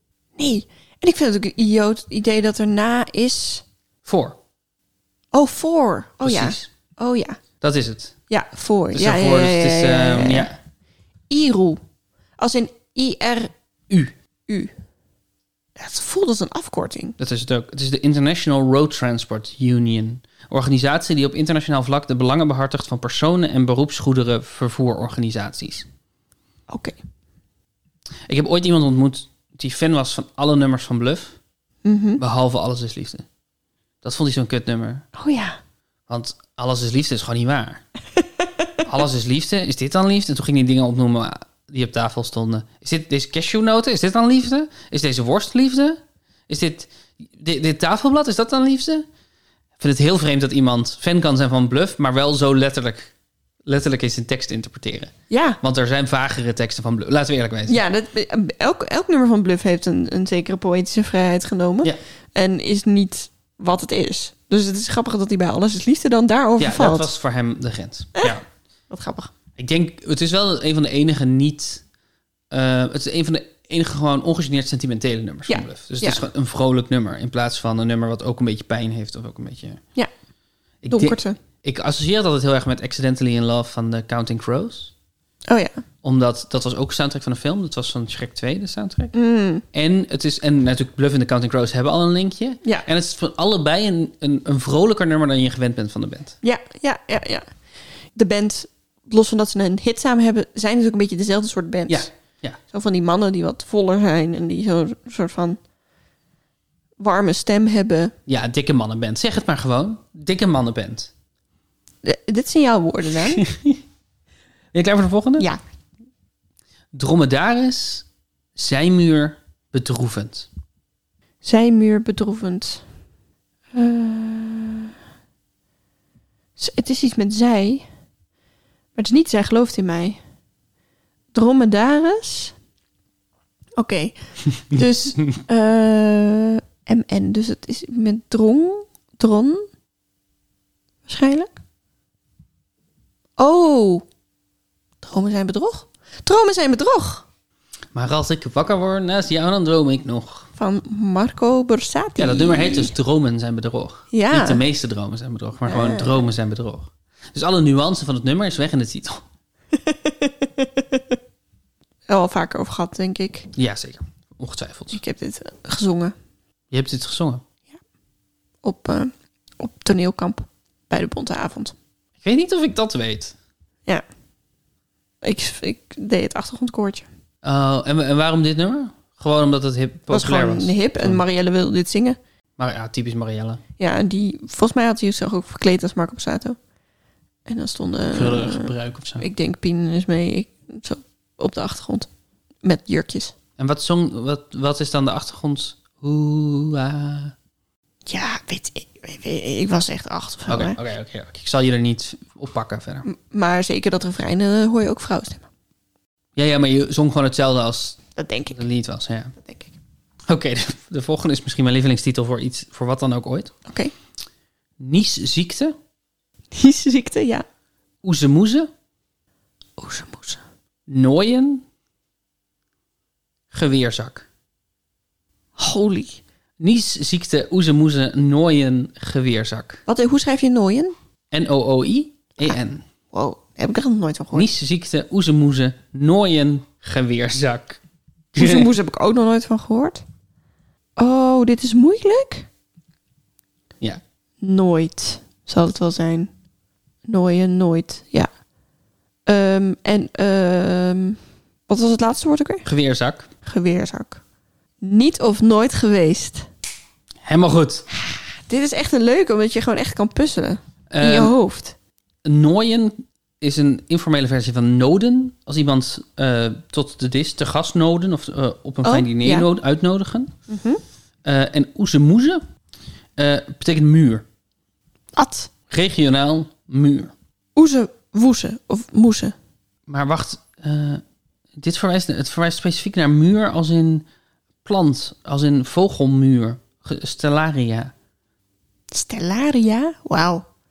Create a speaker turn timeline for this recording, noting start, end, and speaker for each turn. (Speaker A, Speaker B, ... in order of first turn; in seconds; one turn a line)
Speaker A: 0.4-3.6
Speaker B: 4.0-4.4
Speaker A: 5.3-7.4
Speaker B: 6.2-6.7
Speaker B: 7.6-8.2
Speaker A: 8.3-10.5
Speaker B: 8.9-10.6
Speaker A: 11.3-11.8
Speaker A: 12.4-13.5
Speaker A: 14.5-14.7
Speaker A: 15.8-17.2
Speaker B: 17.2-25.9
Speaker A: 26.7-27.0
Speaker B: 28.3-31.4
Speaker A: 31.9-32.2
Speaker B: 32.2-33.2
Speaker B: 34.0-35.1
Speaker A: 35.1-35.6
Speaker B: 36.1-37.8
Speaker B: 38.8-49.0
Speaker B: 49.8-53.1
Speaker B: 53.7-57.8
Speaker A: 55.3-55.6
Speaker A: 57.7-67.1
Speaker B: 66.6-68.4
Speaker A: 68.9-69.3
Speaker B: 69.6-71.8
Speaker B: 72.5-79.8
Speaker A: 75.5-76.2
Speaker B: 80.8-84.9
Speaker A: 80.9-81.4
Speaker A: 85.5-85.8
Speaker B: 86.0-89.1
Speaker A: 89.1-89.6
Speaker B: 89.7-96.4
Speaker A: 96.4-97.5
Speaker A: 98.2-102.1
Speaker B: 101.9-102.6
Speaker A: 102.7-105.6
Speaker A: 107.0-108.1
Speaker B: 108.3-111.1
Speaker A: 112.0-113.5
Speaker B: 113.2-113.8
Speaker B: 114.7-115.5
Speaker B: 116.9-120.5
Speaker A: 121.4-122.8
Speaker A: 123.7-124.9
Speaker A: 126.6-127.9
Speaker A: 129.0-130.2
Speaker A: 131.3-132.6
Speaker A: 133.8-139.7
Speaker B: 134.7-135.3
Speaker A: 141.1-141.5
Speaker A: 143.4-144.1
Speaker A: 145.0-147.2
Speaker B: 147.9-150.5
Speaker A: 150.6-152.9
Speaker B: 152.2-159.2
Speaker A: 154.1-154.6
Speaker A: 155.7-156.2
Speaker A: 159.7-161.0
Speaker A: 162.1-163.5
Speaker B: 163.6-165.0
Speaker A: 164.9-166.1
Speaker B: 166.7-167.4
Speaker A: 168.6-171.7
Speaker B: 172.2-173.3
Speaker A: 175.2-177.1
Speaker B: 177.4-181.2
Speaker A: 180.1-182.2
Speaker B: 182.6-183.6
Speaker A: 183.8-186.6
Speaker A: 187.5-192.1
Speaker B: 188.1-189.3
Speaker A: 192.6-193.3
Speaker B: 193.6-197.3
Speaker A: 198.1-200.8
Speaker B: 200.5-203.1
Speaker A: 203.1-205.5
Speaker B: 206.4-208.0
Speaker A: 208.2-208.6
Speaker B: 208.5-209.4
Speaker A: 209.4-209.7
Speaker B: 210.3-213.5
Speaker A: 213.7-213.9
Speaker B: 214.8-215.7
Speaker A: 216.5-217.4
Speaker B: 218.0-218.7
Speaker A: 219.8-220.4
Speaker B: 220.9-221.6
Speaker B: 223.5-224.3
Speaker A: 225.6-226.2
Speaker B: 226.6-229.8
Speaker A: 229.9-230.9
Speaker B: 231.3-232.8
Speaker A: 233.1-234.5
Speaker B: 234.3-237.8
Speaker B: 238.3-238.7
Speaker A: 238.3-240.0
Speaker A: 241.0-242.5
Speaker A: 244.4-246.3
Speaker A: 247.1-248.3
Speaker A: 249.3-252.7
Speaker B: 252.7-253.3
Speaker A: 253.4-254.2
Speaker A: 254.8-256.5
Speaker B: 257.2-257.9
Speaker A: 258.1-261.8
Speaker B: 260.9-261.4
Speaker B: 262.2-270.3
Speaker A: 268.8-269.5
Speaker A: 270.5-270.8
Speaker B: 271.2-272.4
Speaker B: 273.2-274.2
Speaker A: 275.2-275.5
Speaker B: 275.7-277.1
Speaker A: 277.6-279.4
Speaker B: 279.9-281.0
Speaker B: 281.6-284.1
Speaker B: 284.6-287.9
Speaker A: 288.9-290.4